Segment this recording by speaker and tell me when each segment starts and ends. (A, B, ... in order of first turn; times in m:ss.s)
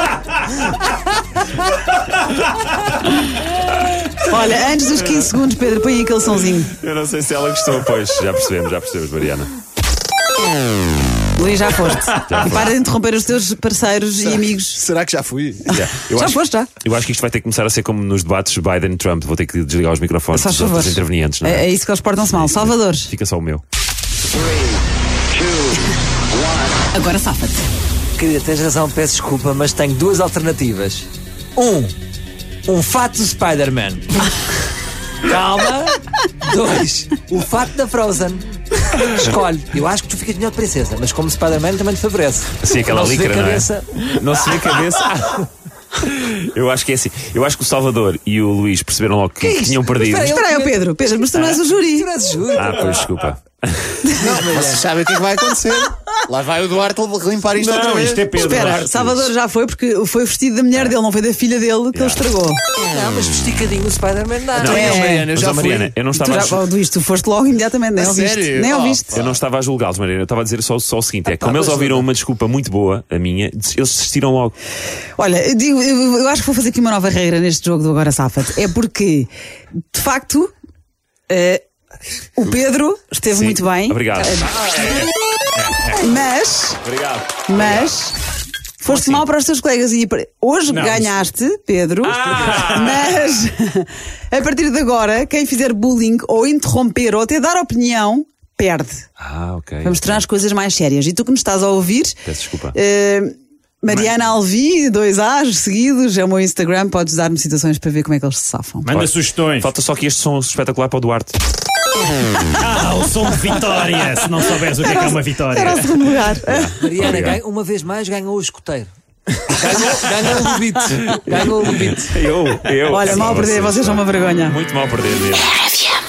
0:04.2-0:06.7 A
0:06.7-0:09.5 B
0:11.4-0:14.8 A
0:12.3-0:12.7 B
0:14.2-0:15.8 C
0:15.7-0:21.6 B
0:15.9-0:16.7 A
0:20.3-0:23.1 A
0:22.2-0:23.6 B
0:26.9-0:27.7 A
0:28.2-0:31.9 D
0:32.7-0:34.3 D
0:35.2-0:38.4 D
0:39.0-0:44.3 D
0:42.6-0:50.3 B
0:49.4-0:53.1 D
0:50.2-0:52.1 A
0:52.5-0:54.1 B
0:54.1-0:58.4 C
0:54.2-0:54.9 D
0:57.5-0:59.0 E
0:58.4-1:02.6 A
0:58.7-0:59.1 B
1:01.9-1:02.2 B
1:02.8-1:05.1 D
1:04.6-1:06.7 B
1:04.6-1:05.9 C
1:04.7-1:05.3 A
1:06.1-1:09.2 A
1:08.0-1:09.4 C
1:09.1-1:14.5 B
1:11.5-1:12.0 D
1:15.2-1:19.3 A
1:19.9-1:20.5 A
1:21.3-1:21.6 A
1:22.4-1:25.0 A
1:23.3-1:24.7 B
1:24.7-1:26.0 E
1:25.9-1:26.8 A
1:26.8-1:28.0 B
1:27.5-1:28.1 A
1:28.8-1:39.1 A
1:28.9-1:29.2 B
1:30.7-1:31.1 E
1:32.0-1:33.5 B
1:39.2-1:40.2 B
1:39.8-1:48.9 A
1:42.2-1:42.8 B
1:48.8-1:49.7 E
1:48.9-1:51.4 B
1:52.4-1:56.3 E
1:54.8-1:56.8 A
1:56.4-1:57.4 B
1:56.8-1:58.9 D
1:59.5-2:02.2 D
2:01.1-2:05.9 B
2:02.9-2:04.6 A